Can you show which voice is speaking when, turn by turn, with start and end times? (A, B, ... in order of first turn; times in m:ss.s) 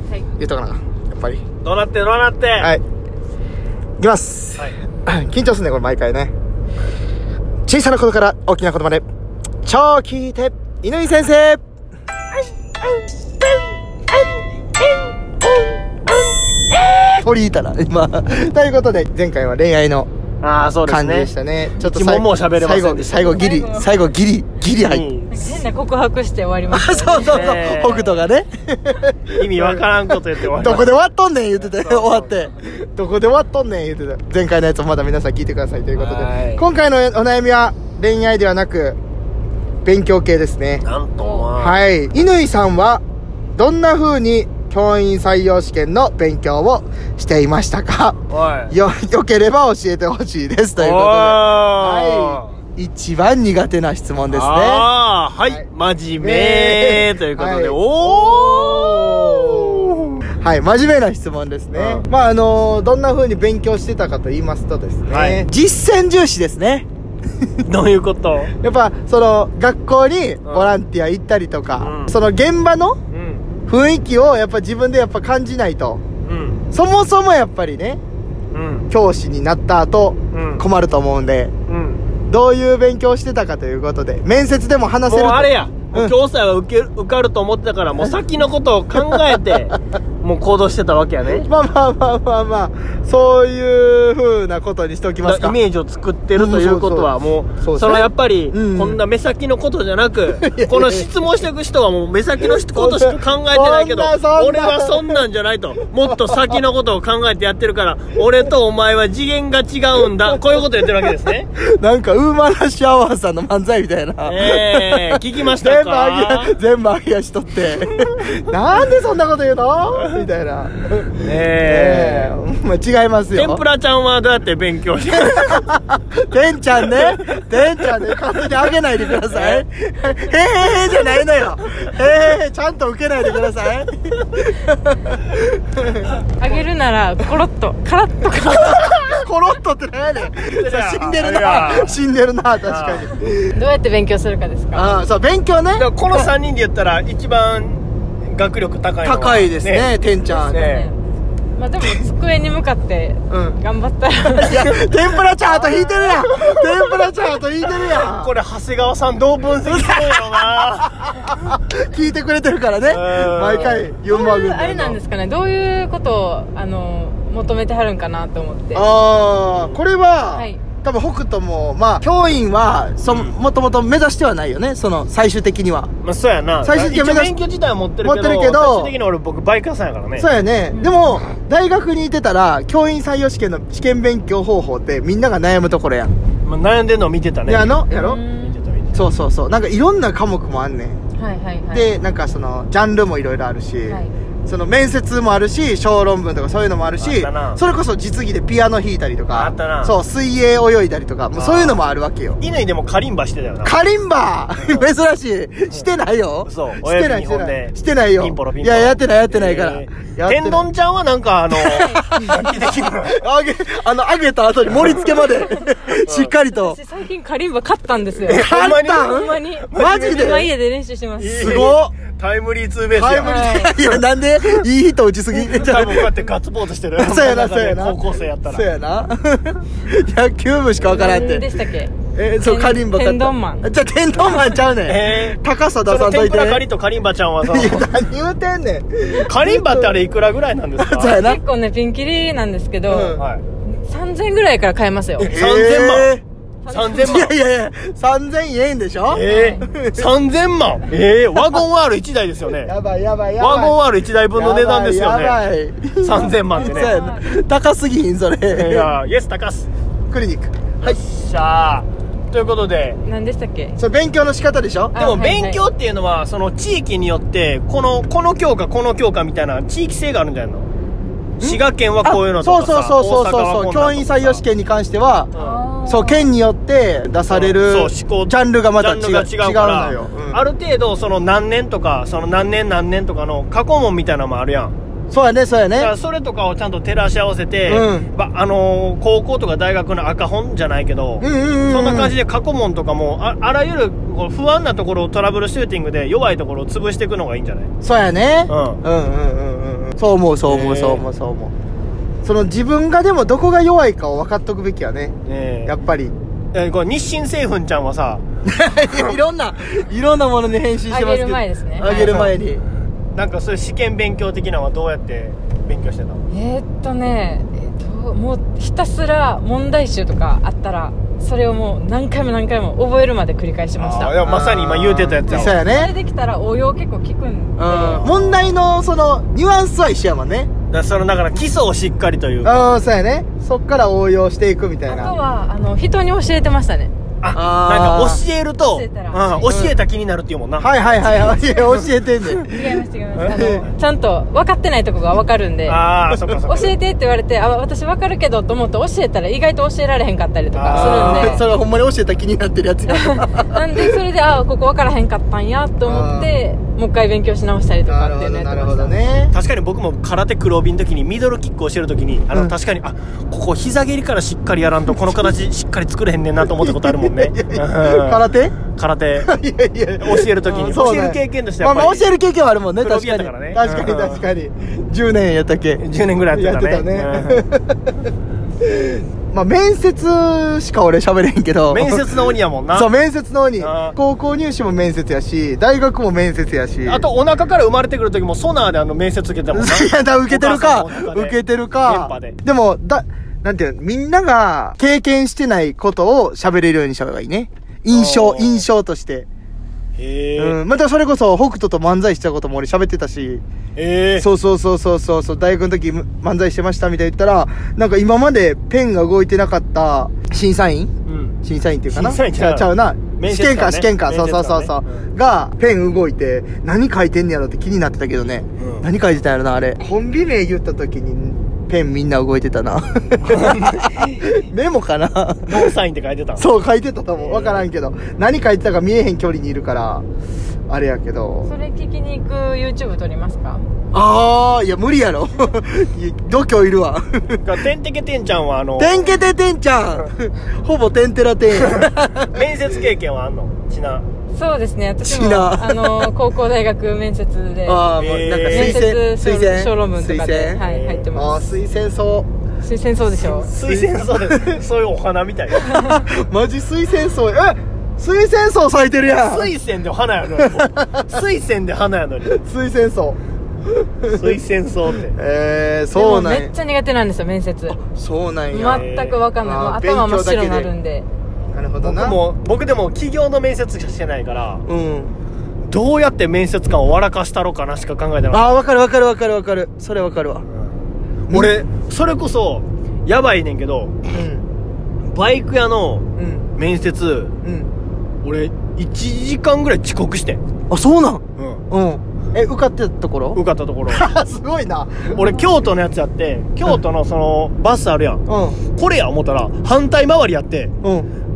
0:00.4-0:01.4 A
0:01.6-0:02.7 B
0:04.0-0:06.3 A
0:07.7-0:09.0 A
0:09.6-0:11.6 A
0:12.9-0:15.7 A
0:16.8-0:20.1 A
0:20.4-0:23.4 B
0:20.9-0:25.1 A
0:23.2-0:24.0 C
0:24.8-0:25.7 B
0:25.3-0:27.5 C
0:26.7-0:29.9 A
0:27.2-0:28.2 B
0:29.4-0:31.0 B
0:30.6-0:39.0 A
0:31.5-0:32.4 B
0:36.0-0:36.6 B
0:39.8-0:40.9 A
0:40.8-0:41.8 B
0:41.2-0:41.5 C
0:41.6-0:43.0 A
0:43.6-0:54.9 A
0:48.3-0:48.7 B
0:50.8-0:52.5 B
0:54.3-1:00.2 B
0:56.2-1:06.9 A
1:01.7-1:02.1 B
1:05.1-1:05.4 B
1:07.7-1:08.5 B
1:08.6-1:13.0 A
1:10.4-1:10.8 B
1:11.8-1:12.1 B
1:13.1-1:13.4 B
1:13.7-1:16.0 A
1:16.3-1:16.6 B
1:16.7-1:18.0 A
1:18.5-1:18.9 B
1:18.9-1:21.5 A
1:20.3-1:20.6 B
1:21.7-1:22.0 B
1:22.3-1:26.2 A
1:25.1-1:31.5 B
1:31.4-1:35.6 A
1:35.2-1:51.5 B
1:36.4-1:39.0 A
1:40.4-1:41.1 A
1:42.7-1:45.2 A
1:46.0-1:46.4 A
1:51.6-2:03.6 A
1:54.2-1:56.6 B
2:01.2-2:02.4 B
2:03.4-2:05.6 B
2:05.1-2:16.1 A
2:06.9-2:07.9 B
2:09.1-2:09.6 B
2:16.4-2:18.8 C
2:18.5-2:23.5 A
2:20.4-2:22.0 B
2:22.6-2:23.1 B
2:23.5-2:25.0 C
2:24.7-2:25.9 A
2:25.7-2:30.9 B
2:29.0-2:30.7 A
2:30.3-2:31.0 C
2:31.6-2:34.8 C
2:33.3-2:33.6 A
2:34.2-2:38.3 A
2:35.4-2:41.4 B
2:39.7-2:40.5 A
2:41.3-2:45.0 A
2:42.9-2:43.9 B
2:44.1-2:48.9 C
2:48.7-2:55.9 A
2:49.5-2:49.8 B
2:50.3-2:50.6 C
2:53.1-2:53.3 B
2:56.0-3:00.3 B
2:56.6-2:57.4 A
2:58.0-2:58.9 A
3:00.2-3:06.1 A
3:00.7-3:01.0 C
3:06.4-3:07.8 B
3:07.5-3:08.2 A
3:07.9-3:08.6 C
3:08.4-3:09.0 B
3:08.9-3:11.0 A
3:11.2-3:11.9 C
3:11.7-3:22.4 A
3:17.0-3:17.6 B
3:19.3-3:20.0 B
3:21.3-3:21.8 B
3:22.4-3:23.8 B
3:23.6-3:30.7 A
3:24.6-3:24.9 B
3:26.5-3:33.2 B
3:31.5-3:32.5 A
3:31.7-3:32.0 C
3:33.0-3:36.8 A
3:36.1-3:36.3 B
3:36.5-3:41.7 C
3:38.3-3:40.2 B
3:38.3-3:40.5 A
3:41.2-3:44.6 B
3:41.3-3:41.9 A
3:42.9-3:46.1 A
3:43.2-3:43.8 C
3:45.3-3:48.7 B
3:47.0-3:51.5 A
3:50.8-3:53.7 C
3:52.1-3:56.6 A
3:54.3-3:57.9 B
3:57.5-4:00.0 A
3:59.3-4:01.2 B
4:00.8-4:01.4 A
4:01.0-4:05.3 C
4:02.9-4:03.3 A
4:03.2-4:03.4 B
4:05.2-4:07.3 B
4:05.2-4:06.2 A
4:06.6-4:07.3 C
4:07.0-4:10.1 A
4:09.1-4:12.7 B
4:09.3-4:09.7 C
4:12.6-4:13.8 A
4:13.4-4:15.4 B
4:14.4-4:18.9 A
4:16.0-4:17.0 B
4:16.6-4:17.3 C
4:18.5-4:19.7 B
4:20.1-4:21.0 A
4:20.8-4:23.0 B
4:23.0-4:23.8 C
4:23.8-4:25.0 A
4:24.9-4:25.6 C
4:25.0-4:30.7 B
4:31.4-4:34.4 B
4:31.4-4:35.3 A
4:35.3-4:35.6 B
4:35.4-4:36.3 C
4:35.9-4:40.4 A
4:37.3-4:44.7 B
4:45.1-4:45.9 A
4:45.8-4:57.7 B
4:47.7-4:48.1 A
4:51.2-4:52.2 A
4:57.8-5:01.5 A
4:58.5-4:58.8 B
5:00.5-5:01.1 B
5:02.2-5:06.1 A
5:05.3-5:05.7 B
5:06.5-5:08.2 B
5:08.4-5:12.6 A
5:08.8-5:09.1 B
5:10.9-5:12.2 C
5:11.8-5:12.4 B
5:13.2-5:16.2 B
5:16.3-5:24.2 C
5:23.8-5:25.6 B
5:24.2-5:25.9 A
5:25.3-5:28.1 C
5:27.6-5:30.5 A
5:27.7-5:28.5 B
5:30.7-5:32.7 B
5:32.4-5:35.2 A
5:34.9-5:36.9 C
5:37.2-5:42.4 B
5:37.3-5:38.2 A
5:38.7-5:39.5 C
5:39.5-5:39.8 A
5:40.6-5:42.5 A
5:41.1-5:41.8 C
5:42.4-5:45.8 C
5:43.2-5:43.7 B
5:43.3-5:43.6 A
5:45.7-5:46.8 B
5:46.4-5:51.4 C
5:50.5-5:51.4 B
5:50.7-5:54.0 A
5:52.9-5:59.0 C
5:55.8-5:56.3 A
5:57.9-5:59.3 A
5:59.3-6:09.3 B
6:04.9-6:05.3 A
6:06.5-6:08.6 A
6:09.2-6:17.9 A
6:10.0-6:12.1 B
6:12.8-6:14.2 B
6:15.8-6:17.5 B
6:18.6-6:27.0 A
6:21.7-6:22.9 B
6:23.6-6:24.0 B
6:26.9-6:32.4 B
6:29.5-6:39.3 A
6:37.9-6:38.7 B
6:40.0-6:40.6 B
6:40.4-6:43.4 A
6:43.8-6:44.3 B
6:44.2-6:50.9 A
6:51.1-6:51.4 B
6:51.4-7:05.7 A
6:51.9-6:55.1 B
6:58.6-6:58.9 B
7:03.3-7:04.4 B
7:05.4-7:06.4 B
7:06.4-7:10.0 A
7:07.2-7:07.6 B
7:10.7-7:11.5 A
7:11.5-7:13.7 C
7:13.9-7:17.4 A
7:17.4-7:19.2 B
7:18.8-7:22.4 A
7:21.6-7:24.1 B
7:24.3-7:27.9 C
7:25.0-7:26.1 A
7:27.6-7:30.6 A
7:28.0-7:28.8 B
7:28.5-7:31.5 C
7:30.6-7:31.1 B
7:31.1-7:32.3 A
7:32.6-7:33.5 C
7:33.2-7:34.6 A
7:33.4-7:35.7 B
7:35.6-7:39.5 A
7:39.0-7:42.4 B
7:40.4-7:41.0 A
7:42.2-7:43.2 A
7:43.8-7:44.4 A
7:44.1-7:45.2 B
7:45.0-7:46.5 A
7:45.9-7:47.8 C
7:47.7-7:50.7 A
7:48.5-7:51.1 C
7:48.7-7:49.2 B
7:51.5-7:52.2 A
7:51.8-7:54.6 B
7:54.7-7:55.2 A
7:55.7-7:58.4 B
7:58.3-8:00.5 A
8:01.3-8:03.9 B
8:01.3-8:01.6 A
8:04.1-8:04.5 A
8:05.1-8:06.1 B
8:06.2-8:06.5 A
8:06.6-8:07.3 B
8:07.4-8:07.7 A
8:08.2-8:10.4 B
8:10.7-8:15.4 A
8:11.4-8:11.6 B
8:13.4-8:14.0 B
8:15.1-8:20.7 B
8:18.3-8:18.6 A
8:20.8-8:21.1 A